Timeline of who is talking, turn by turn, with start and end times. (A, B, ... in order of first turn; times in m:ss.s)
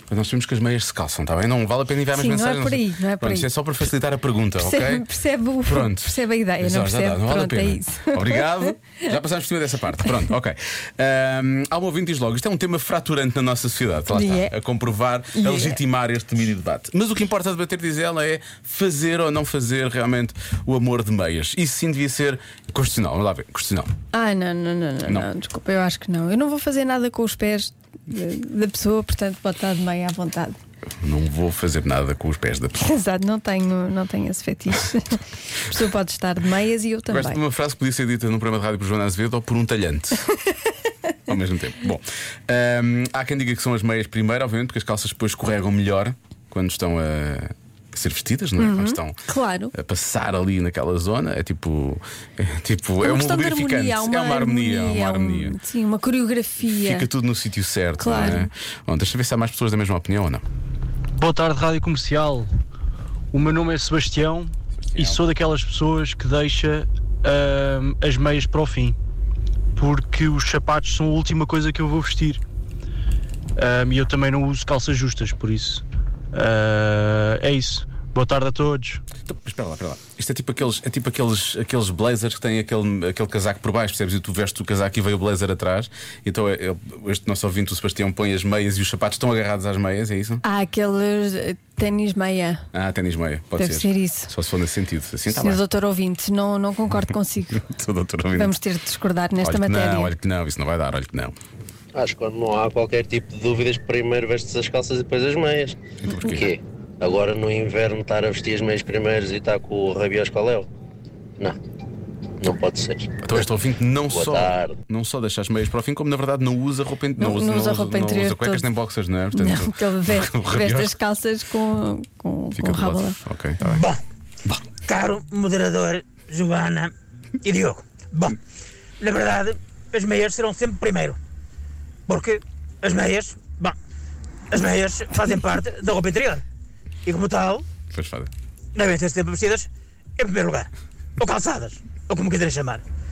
0:00.1-0:05.0 A
0:02.1-0:03.5 B
0:04.6-0:08.7 B
0:05.6-0:23.9 A
0:14.1-0:14.5 B
0:15.3-0:15.8 B
0:24.1-0:30.6 B
0:31.0-0:32.8 A
0:32.8-0:37.4 B
0:37.1-0:40.2 A
0:41.3-0:49.2 A
0:48.6-0:49.7 B
0:49.7-0:55.5 A
0:53.0-0:57.1 B
0:56.6-1:00.4 A
0:58.0-0:58.5 B
1:01.2-1:02.5 C
1:03.3-1:09.0 C
1:04.9-1:05.2 A
1:09.8-1:12.4 C
1:13.6-1:19.0 C
1:19.2-1:30.4 A
1:30.4-1:32.6 B
1:32.7-1:35.6 A
1:33.6-1:34.3 B
1:35.3-1:37.6 B
1:37.6-1:38.5 A
1:38.4-1:40.1 B
1:39.4-1:41.3 A
1:41.9-1:50.7 D
1:46.0-1:46.5 A
1:52.4-1:53.1 D
1:53.2-2:01.0 A
1:54.1-1:54.8 D
1:57.2-1:58.6 B
1:59.3-2:03.2 B
2:02.5-2:03.8 A
2:03.6-2:04.0 E
2:04.8-2:06.9 E
2:07.4-2:08.4 E
2:09.0-2:11.2 E
2:12.1-2:13.8 E
2:14.5-2:16.4 E
2:17.0-2:17.6 E
2:17.9-2:18.3 A
2:18.7-2:22.8 E